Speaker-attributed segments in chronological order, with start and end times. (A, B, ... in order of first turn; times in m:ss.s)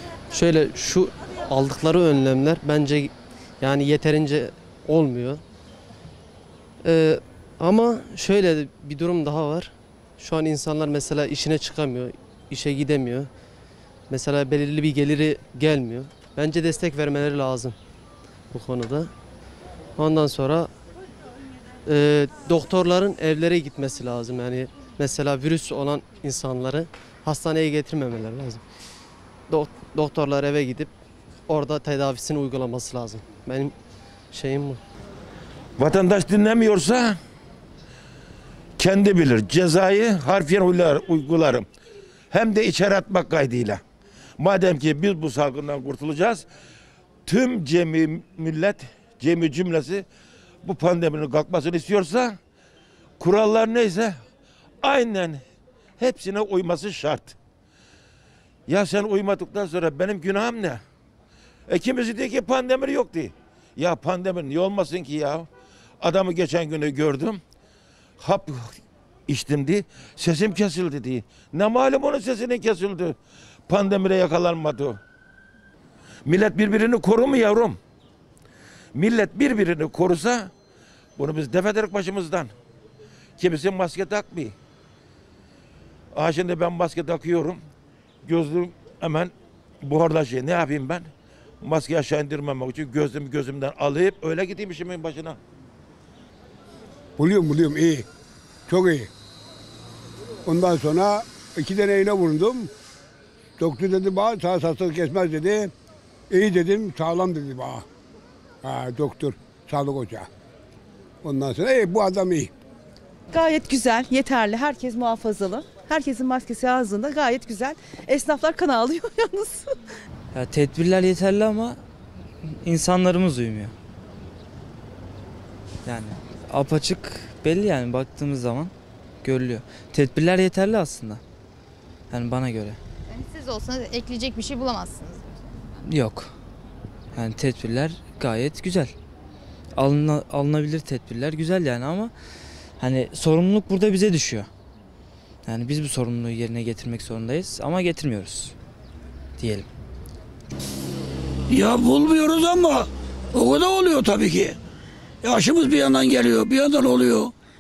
0:00.3-0:05.4 A
0:06.8-0:13.3 A
0:14.1-0:17.8 A
0:18.5-0:19.1 A
0:20.0-0:20.7 A
0:21.9-0:28.6 A
0:29.5-0:30.9 A
0:31.5-0:33.8 A
0:34.3-0:34.8 A
0:35.8-0:37.2 B
0:38.8-0:41.6 B
0:42.3-0:43.8 B
0:44.4-0:46.5 B
0:47.3-0:50.1 B
0:50.6-0:52.4 B
0:53.2-0:54.2 B
0:54.8-0:55.4 B
0:56.0-0:57.4 B
0:58.7-1:00.8 B
1:01.7-1:05.5 B
1:06.0-1:07.4 B
1:08.2-1:13.2 B
1:13.7-1:15.0 B
1:16.2-1:17.8 B
1:18.9-1:20.5 B
1:21.2-1:22.5 B
1:23.4-1:24.6 B
1:26.1-1:27.6 B
1:28.2-1:31.1 B
1:31.6-1:35.4 B
1:37.2-1:38.1 C
1:38.7-1:39.1 C
1:40.5-1:42.7 C
1:43.6-1:45.7 C
1:46.3-1:47.8 C
1:48.6-1:50.3 C
1:51.2-1:52.5 C
1:53.3-1:59.7 D
2:00.3-2:01.8 E
2:02.4-2:03.7 E
2:05.8-2:08.7 E
2:09.2-2:11.2 E
2:12.1-2:12.8 E
2:13.1-2:15.3 F
2:15.9-2:16.3 E
2:17.1-2:18.9 E
2:19.8-2:22.1 E
2:22.8-2:24.5 E
2:25.5-2:28.5 E
2:29.4-2:29.7 E
2:31.5-2:34.6 G
2:35.2-2:37.3 G